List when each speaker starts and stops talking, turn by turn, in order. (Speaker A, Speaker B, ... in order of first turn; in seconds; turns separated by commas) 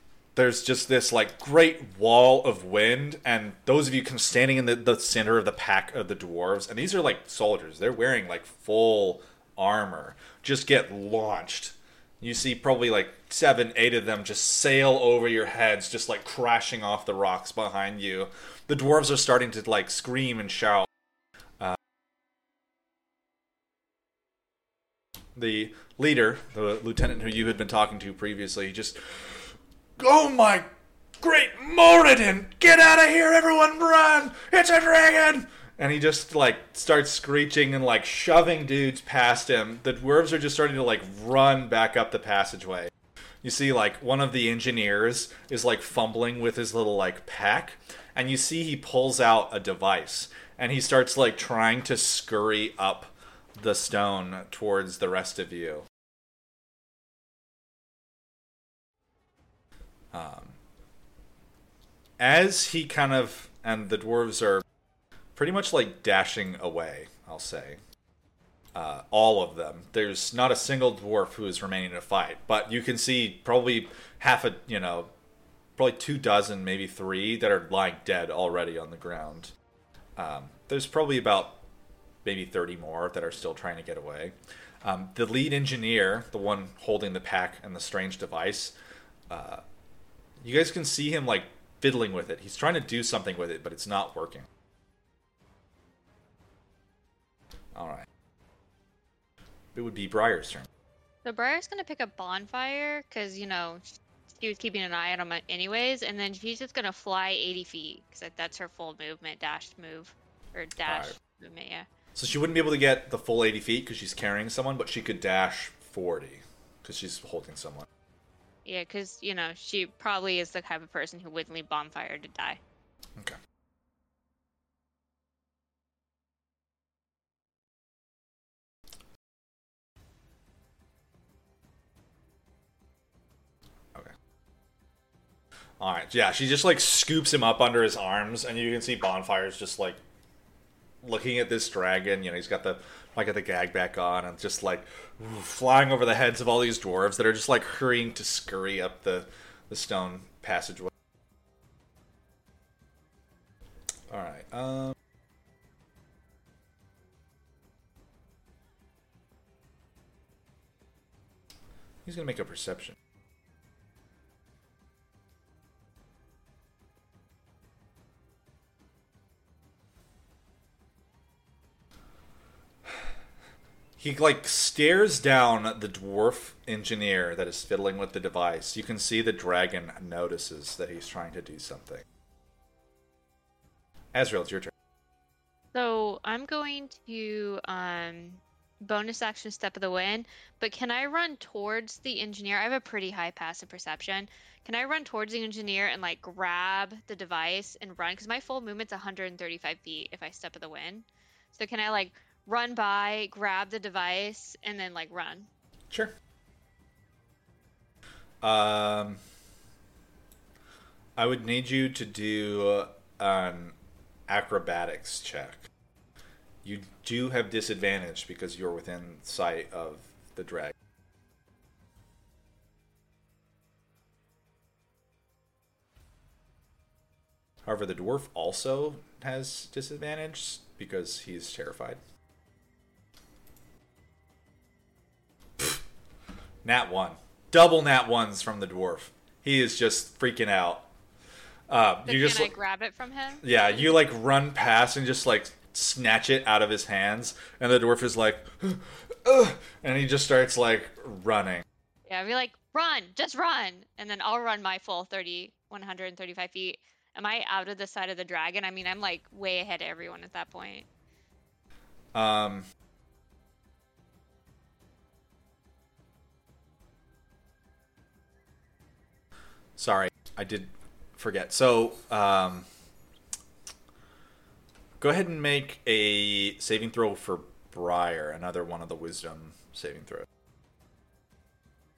Speaker A: 0.3-20.9, Speaker A: 25.4-42.9, Speaker A: 43.4-55.8, Speaker A: 60.1-60.5, Speaker A: 62.2-64.6, Speaker A: 65.3-67.8, Speaker A: 68.7-75.1, Speaker A: 75.8-79.5, Speaker A: 80.2-81.6, Speaker A: 82.2-88.7, Speaker A: 89.3-89.6, Speaker A: 90.4-94.5, Speaker A: 97.7-98.1, Speaker A: 99.7-100.7, Speaker B: 101.2-111.9, Speaker A: 110.8-111.1, Speaker A: 112.2-117.9, Speaker B: 118.6-122.6, Speaker A: 135.8-140.0, Speaker A: 141.0-150.9, Speaker A: 154.1-154.9, Speaker A: 162.0-162.9, Speaker A: 174.0-182.0, Speaker A: 184.1-184.7, Speaker B: 185.7-205.5, Speaker A: 208.4-209.2, Speaker A: 211.2-213.7, Speaker A: 214.3-215.7, Speaker A: 216.6-220.7, Speaker A: 227.6-232.0, Speaker A: 236.6-240.9, Speaker A: 241.7-242.5, Speaker B: 242.1-243.6, Speaker A: 243.4-251.6, Speaker B: 252.1-260.9, Speaker A: 262.1-262.6, Speaker A: 269.8-272.7, Speaker A: 275.0-280.3